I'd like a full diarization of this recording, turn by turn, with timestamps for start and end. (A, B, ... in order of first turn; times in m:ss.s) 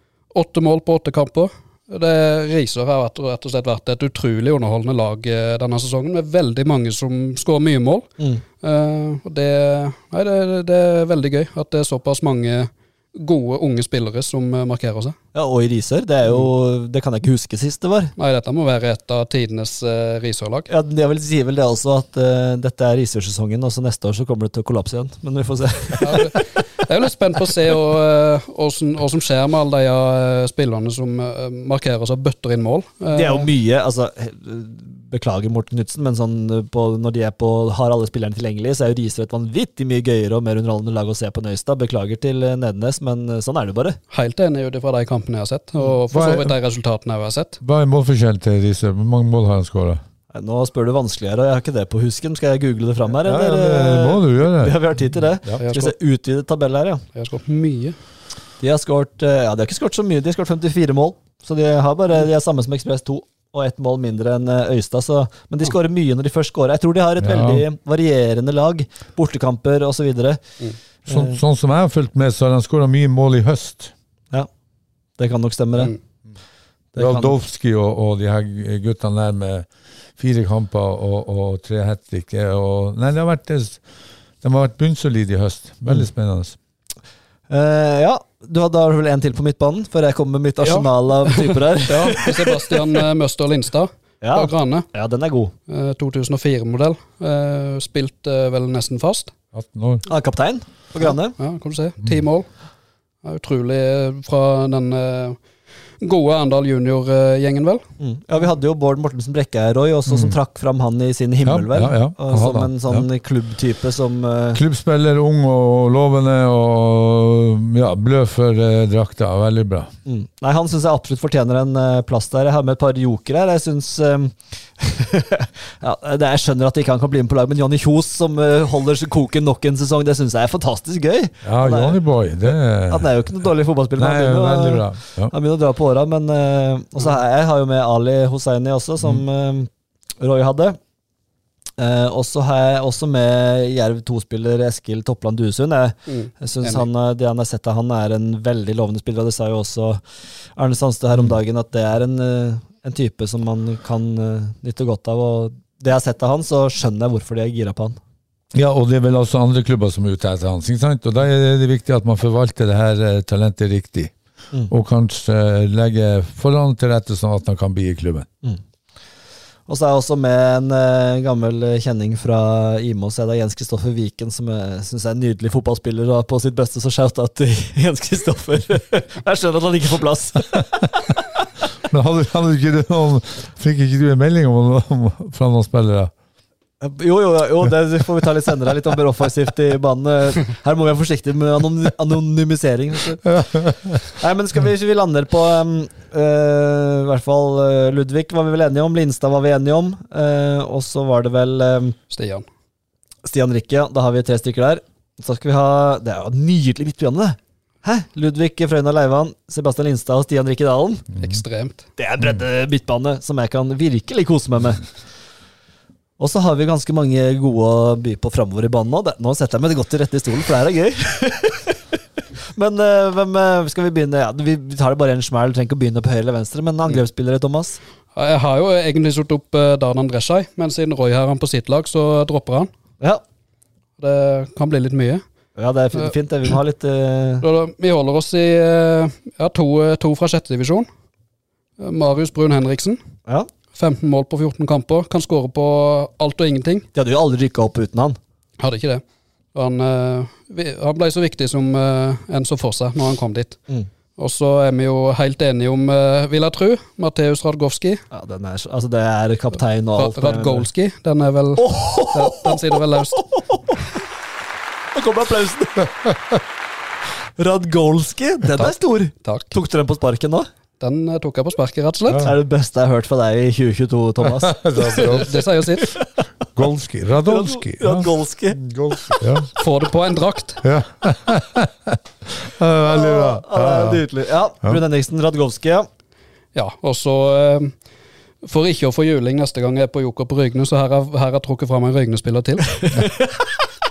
0:00.3-0:08.1 A
0:08.6-0:15.2 A
0:15.3-0:18.1 B
0:18.2-0:20.7 A
0:20.7-0:26.7 B
0:26.0-0:33.5 A
0:33.1-0:44.0 B
0:44.1-0:47.6 A
0:46.1-0:46.6 C
0:47.6-0:50.0 C
0:50.3-0:57.0 B
0:53.2-0:54.8 C
0:55.6-0:55.9 A
0:57.2-0:58.0 A
0:58.6-1:10.4 B
1:07.2-1:07.7 C
1:11.1-1:11.4 B
1:11.1-1:13.9 C
1:15.2-1:15.9 B
1:17.0-1:17.4 B
1:17.0-1:19.7 C
1:20.2-1:23.8 C
1:24.4-1:26.6 C
1:27.5-1:32.8 B
1:30.6-1:34.9 A
1:34.2-1:35.5 B
1:35.7-1:39.3 A
1:39.5-1:40.0 C
1:40.1-1:41.4 B
1:41.0-1:42.5 A
1:43.2-1:45.4 A
1:46.0-1:47.8 A
1:48.0-1:54.6 B
1:50.1-1:50.4 C
1:51.4-1:53.0 C
1:54.5-1:59.9 C
2:00.1-2:12.0 B
2:11.4-2:13.1 C
2:12.9-2:20.8 B
2:14.0-2:15.3 C
2:21.8-2:30.0 B
2:26.1-2:26.9 A
2:30.6-2:38.0 B
2:38.5-2:44.1 C
2:44.7-2:48.3 C
2:49.7-3:00.6 B
3:00.6-3:00.8 C
3:01.9-3:06.1 C
3:06.8-3:13.3 B
3:13.3-3:14.0 C
3:14.1-3:22.0 B
3:22.1-3:22.4 A
3:23.2-3:31.1 B
3:31.2-3:31.8 A
3:32.0-3:34.8 B
3:36.2-3:41.8 B
3:42.5-3:47.8 B
3:48.2-3:52.7 A
3:54.0-3:55.2 A
3:55.6-3:57.4 B
3:57.4-4:00.9 A
4:01.8-4:03.0 A
4:03.7-4:06.9 A
4:06.9-4:08.2 B
4:08.6-4:09.0 A
4:09.5-4:13.6 A
4:14.2-4:18.0 A
4:18.1-4:20.7 B
4:20.0-4:23.2 A
4:21.6-4:23.8 B
4:24.9-4:26.0 B
4:27.4-4:30.5 B
4:28.5-4:29.5 A
4:30.8-4:32.3 A
4:32.2-4:35.3 B
4:34.2-4:35.3 C
4:34.9-4:36.0 A
4:36.6-4:39.5 C
4:37.3-4:39.2 B
4:39.6-4:40.6 A
4:40.6-4:44.0 C
4:42.8-4:45.9 B
4:46.5-4:47.8 A
4:48.4-4:53.1 A